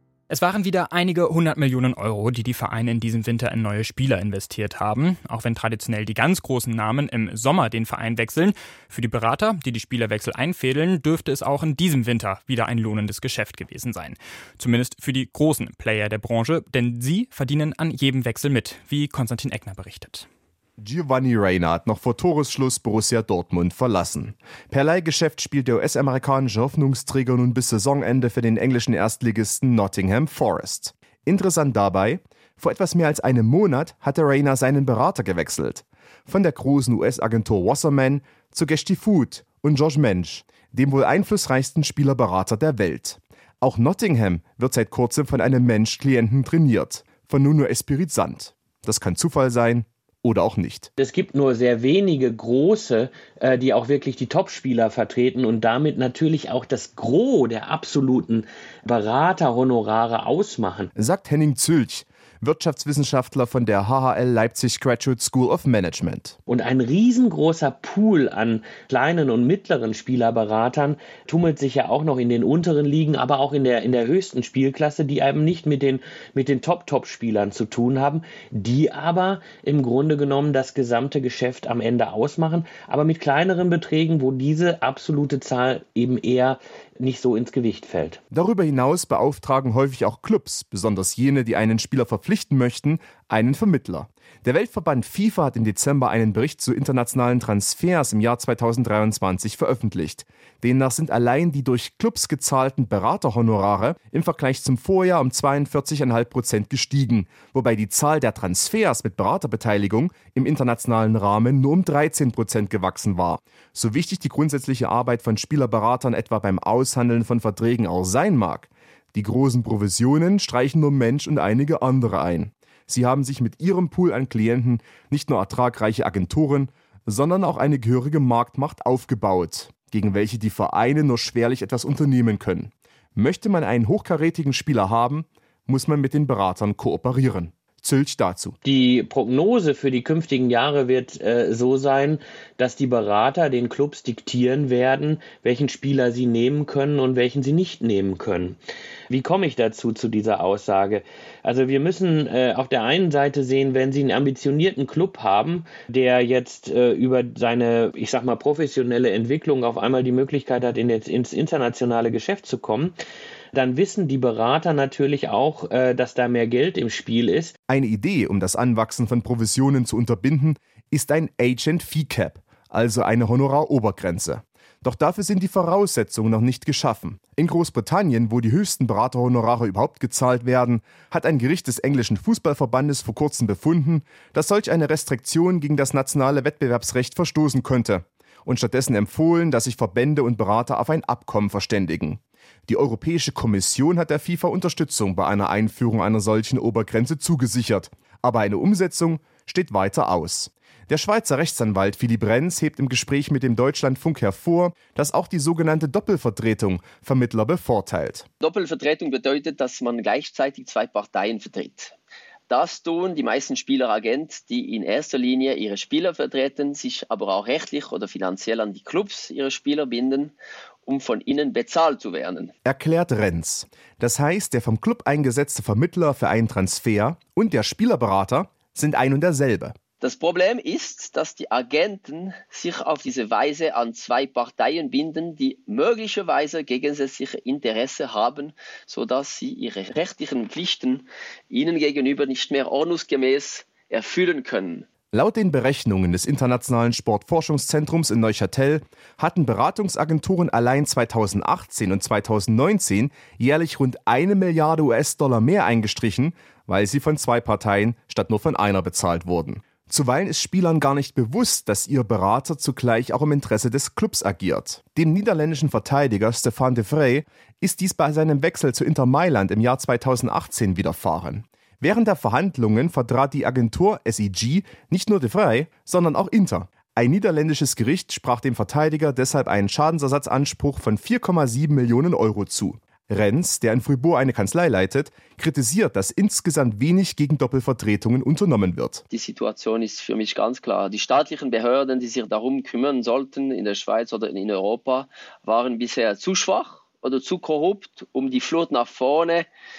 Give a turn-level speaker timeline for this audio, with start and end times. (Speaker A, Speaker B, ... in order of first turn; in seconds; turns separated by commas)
Speaker A: 0.3-20.3, Speaker B: 20.8-50.9, Speaker C: 51.0-60.9, Speaker B: 61.0-66.4, Speaker C: 66.5-88.2, Speaker B: 88.3-138.6, Speaker C: 138.6-148.6, Speaker C: 149.1-162.9, Speaker C: 163.5-167.5, Speaker B: 167.7-208.3, Speaker D: 208.4-211.9, Speaker D: 212.5-220.3, Speaker D: 220.9-222.5, Speaker B: 222.7-229.8, Speaker D: 230.0-244.9, Speaker B: 245.1-289.0, Speaker D: 289.1-299.5